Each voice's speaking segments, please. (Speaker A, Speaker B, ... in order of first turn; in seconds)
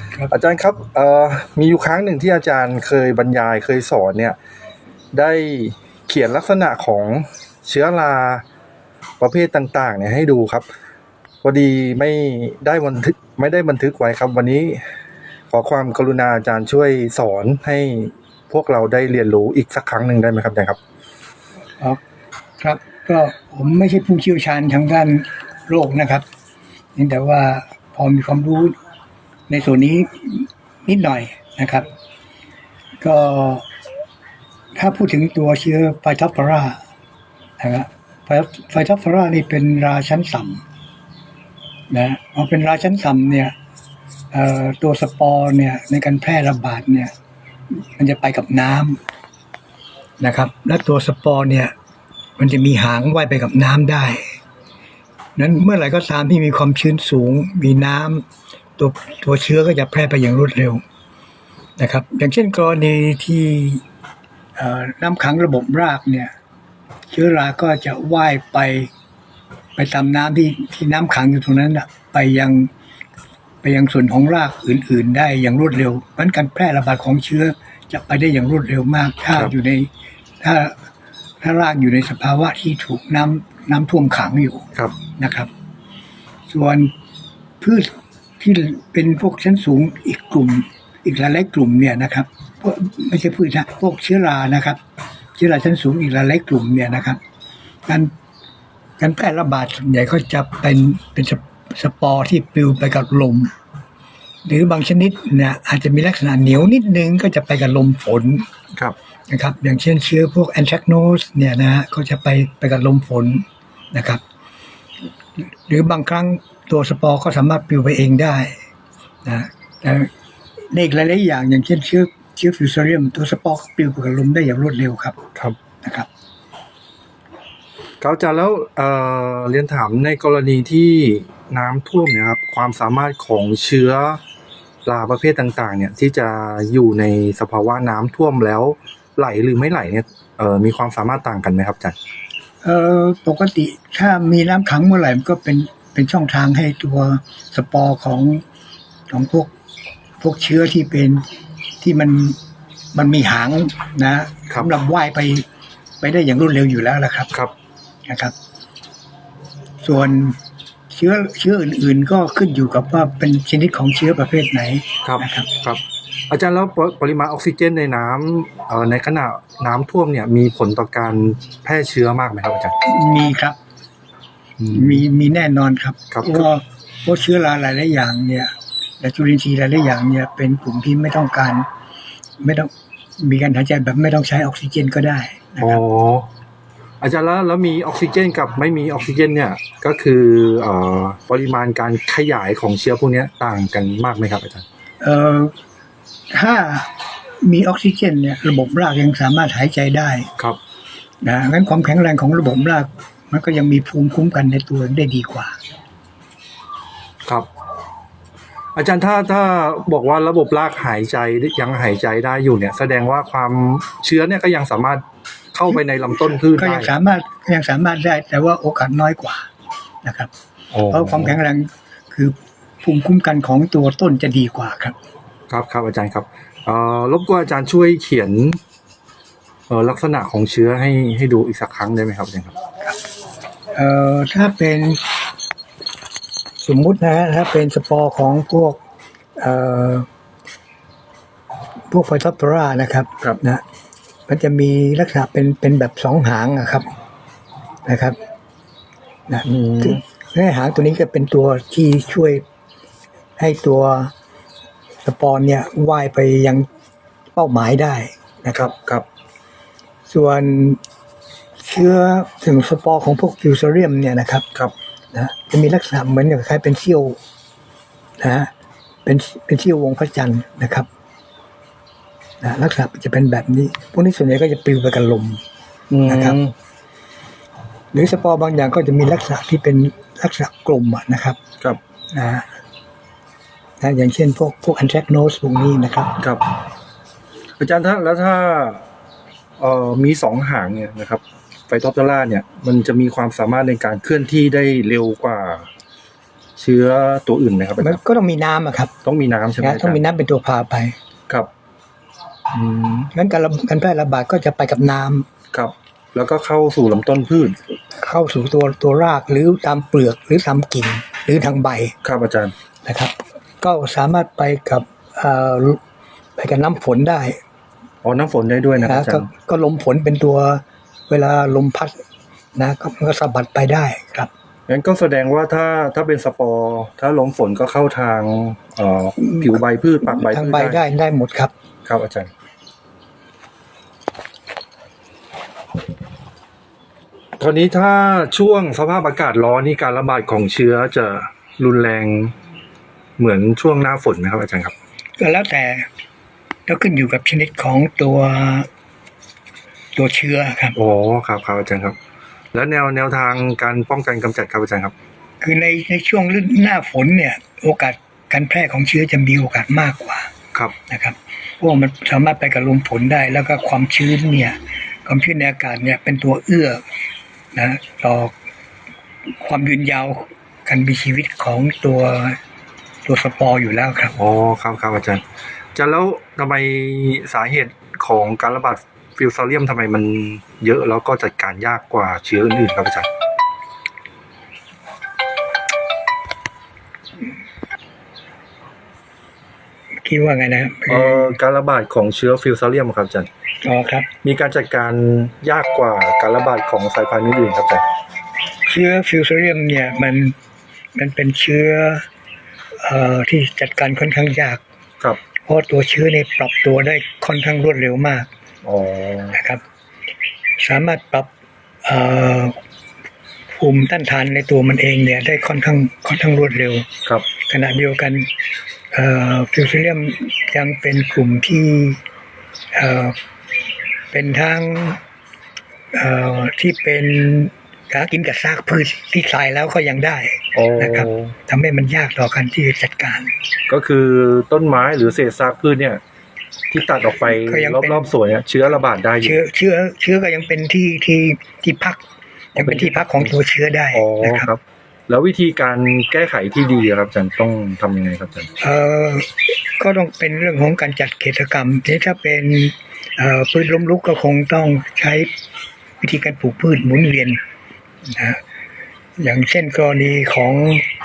Speaker A: 0.3-4.4, 5.1-8.4, 9.2-10.7, 11.4-14.8, 15.5-20.8, 128.0-134.2, 134.8-142.0, 165.1-172.8, 174.6-175.0, 176.1-176.4, 185.6-186.3, 187.0-194.7, 208.8-216.9, 220.7-221.4, 225.5-228.6, 229.7-232.6, 249.4-250.0, 258.5-259.1, 275.9-276.5, 286.2-286.4, 287.6-288.8, 289.6-295.7, 296.6-298.0, 299.0-300.0, 302.5-303.1, 305.5-307.6, 312.0-312.5, 318.0-319.3, 324.7-330.8, 331.9-332.3, 337.4-342.4, 343.2-344.7, 350.8-352.0, 352.5-354.9, 374.1-375.2, 375.8-383.1, 390.9-393.3, 394.2-397.8, 408.6-409.4, 430.5-431.3, 433.7-436.0, 436.7-439.4, 442.6-443.3, 443.9-448.5
Speaker B: 22.6-26.2, 27.0-28.8, 29.5-31.9, 33.0-33.6, 34.8-36.8, 37.6-40.6, 41.9-43.5, 44.3-47.1, 47.7-49.0, 50.2-51.7, 52.4-54.4, 55.4-58.2, 58.8-60.8, 61.8-63.8, 64.6-66.3, 67.1-68.9, 69.8-72.7, 73.6-79.9, 80.4-80.8, 81.4-85.5, 86.5-86.9, 87.6-94.8, 95.4-97.2, 97.9-98.1, 99.0-103.5, 104.5-108.5, 109.3-114.2, 115.7-118.6, 119.2-120.1, 120.7-125.2, 125.8-126.1, 142.6-148.4, 149.1-149.5, 150.2-151.2, 151.8-152.4, 152.9-155.4, 156.0-157.3, 158.1-158.3, 159.8-160.4, 160.9-165.5, 172.8-173.6, 174.7-181.7, 182.4-185.8, 195.0-195.5, 196.3-196.9, 197.4-200.3, 201.2-205.6, 216.1-219.5, 220.0-220.3, 220.9-225.0, 233.7-235.0, 236.6-238.8, 239.4-240.1, 241.9-243.6, 244.3-246.9, 247.8-248.2, 249.3-252.4, 253.4-254.1, 255.0-256.7, 257.4-258.7, 260.1-260.8, 261.6-264.5, 265.1-267.2, 268.2-268.5, 269.1-270.9, 272.4-275.4, 276.1-276.4, 277.9-281.4, 282.1-282.5, 283.8-286.2, 297.8-298.9, 299.6-300.9, 303.1-305.3, 307.9-311.9, 312.9-315.8, 316.4-317.4, 318.8-322.0, 322.6-324.3, 329.2-331.5, 345.2-345.9, 346.7-348.7, 350.0-350.8, 355.4-360.3, 360.9-366.8, 367.5-368.3, 369.4-372.4, 373.1-374.1, 390.0-391.4, 393.6-394.1, 398.7-400.4, 400.9-402.1, 402.8-404.6, 405.4-408.3, 409.3-409.6, 410.6-411.3, 411.9-412.6, 413.5-418.3, 418.9-422.0, 422.7-423.2, 424.1-425.0, 425.9-433.3, 437.2-438.1, 439.2-442.0, 442.6-444.5, 448.6-455.3, 456.0-457.4, 458.1-458.4, 459.2-460.9